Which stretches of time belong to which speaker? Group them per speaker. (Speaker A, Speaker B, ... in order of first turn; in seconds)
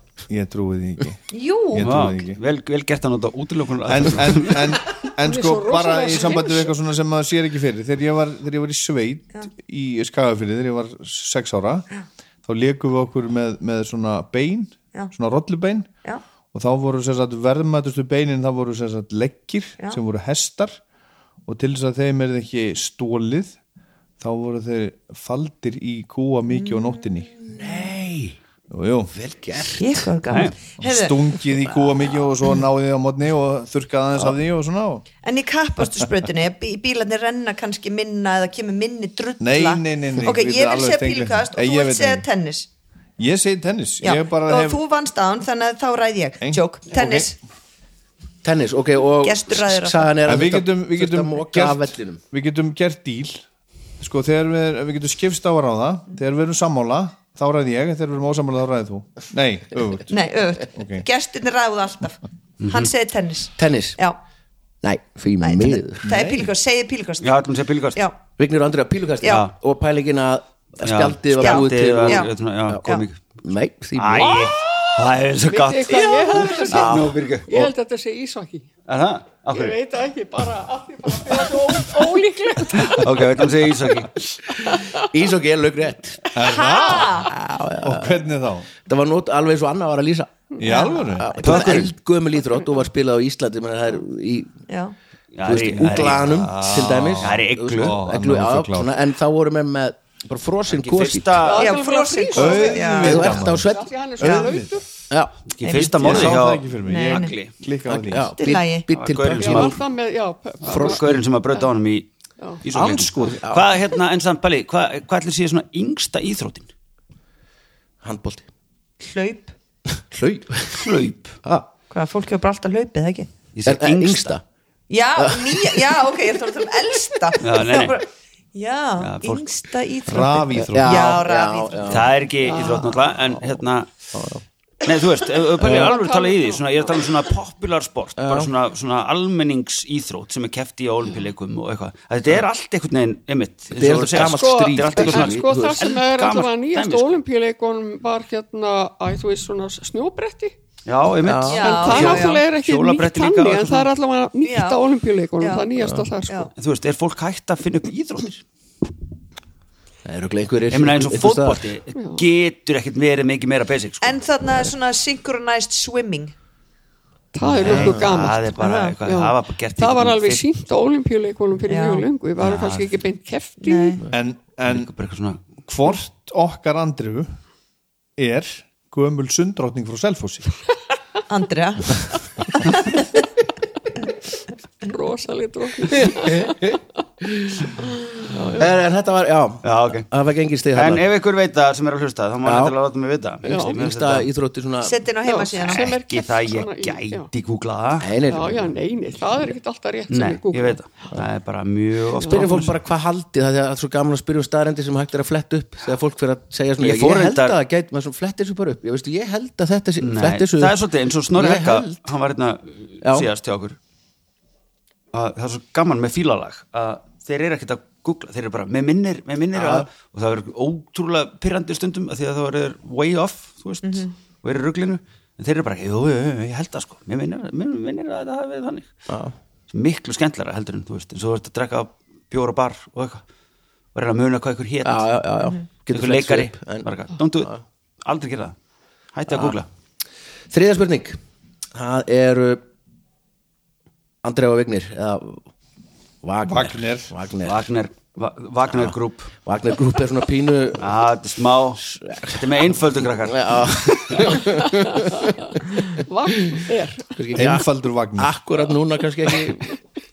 Speaker A: 0.3-2.4, 3.9-11.9, 12.5-15.9, 16.5-20.8, 21.5-23.6, 24.2-27.4, 28.7-29.1, 30.8-35.0, 39.4-42.2, 43.2-44.8, 46.4-47.3, 50.2-53.4, 54.0-60.1, 60.7-61.1, 66.0-66.5, 86.3-88.7, 90.6-91.3, 96.2-98.9, 102.3-103.7, 104.2-104.8, 106.0-108.3, 112.8-113.3, 130.1-131.2, 174.1-174.9, 175.7-177.4, 178.2-180.5, 246.5-247.1, 257.4-258.3
Speaker B: 1.3-2.0, 26.5-27.1, 29.8-31.2, 35.2-42.7, 44.0-47.4, 49.2-50.1, 60.1-64.2, 65.4-67.4, 71.4-72.3, 86.4-87.3, 90.6-91.8, 94.7-95.0, 101.5-103.4, 105.6-107.3, 108.1-108.9, 119.0-119.5, 121.9-123.3, 124.9-132.1, 151.5-152.5, 154.4-154.8, 155.4-155.7, 164.0-166.3, 168.6-168.9, 171.7-172.1, 173.6-174.0, 181.3-183.1, 194.8-195.9, 223.8-224.1
Speaker C: 1.8-4.7, 30.3-30.6, 62.6-62.9, 67.2-68.0, 69.2-69.5, 70.8-73.2, 74.0-77.5, 78.9-79.8, 82.8-84.1, 91.4-91.9, 95.4-98.0, 100.7-101.8, 105.5-107.5, 108.9-109.8, 110.6-112.1, 112.6-116.7, 120.7-121.4, 123.5-124.3, 127.4-128.0, 129.0-129.4, 131.9-133.9, 134.8-147.2, 150.9-153.9, 156.6-158.4, 160.7-164.2, 167.5-170.4, 172.4-172.9, 174.6-175.5, 189.6-190.1, 190.7-194.3, 195.7-198.1, 200.1-202.8, 206.8-207.6, 210.0-213.8, 215.1-229.1, 229.7-233.2, 233.9-235.1, 235.9-237.5, 238.0-238.6, 239.1-239.7, 247.4-249.3, 250.8-254.4
Speaker D: 5.2-6.7, 74.4-78.7, 79.5-83.5, 84.4-85.1, 101.4-104.9, 109.3-111.0, 132.5-132.9, 135.6-137.1, 144.2-150.6, 151.6-156.5, 161.9-162.2, 167.3-174.0, 184.8-186.8, 188.2-188.7, 193.5-193.8, 195.2-197.3, 198.2-200.8, 202.2-202.5, 256.1-257.2
Speaker E: 27.4-28.4, 29.1-30.1, 48.4-52.2, 63.6-64.0, 64.8-66.1, 68.4-74.5, 85.0-86.3, 87.0-88.2, 88.8-90.4, 91.0-94.5, 95.5-101.5, 103.0-103.9, 105.1-105.3, 107.9-109.8, 110.7-111.2, 112.9-113.7, 118.0-118.5, 120.1-121.7, 123.7-124.4, 125.2-125.9, 130.6-132.1, 134.1-134.4, 135.6-135.9, 138.2-138.5, 143.7-145.8, 151.2-152.2, 160.1-161.7, 167.5-168.1, 185.9-187.7, 188.6-191.0, 192.4-192.8, 193.5-194.9, 198.0-198.8, 202.2-210.8, 211.3-212.1, 213.0-213.3, 219.5-219.9, 229.1-229.3, 234.8-236.9, 239.3-239.6, 240.5-241.2, 241.8-242.6, 244.2-245.4, 246.2-247.7, 248.7-250.9, 251.8-252.7, 253.2-256.6, 257.2-257.7, 258.2-259.8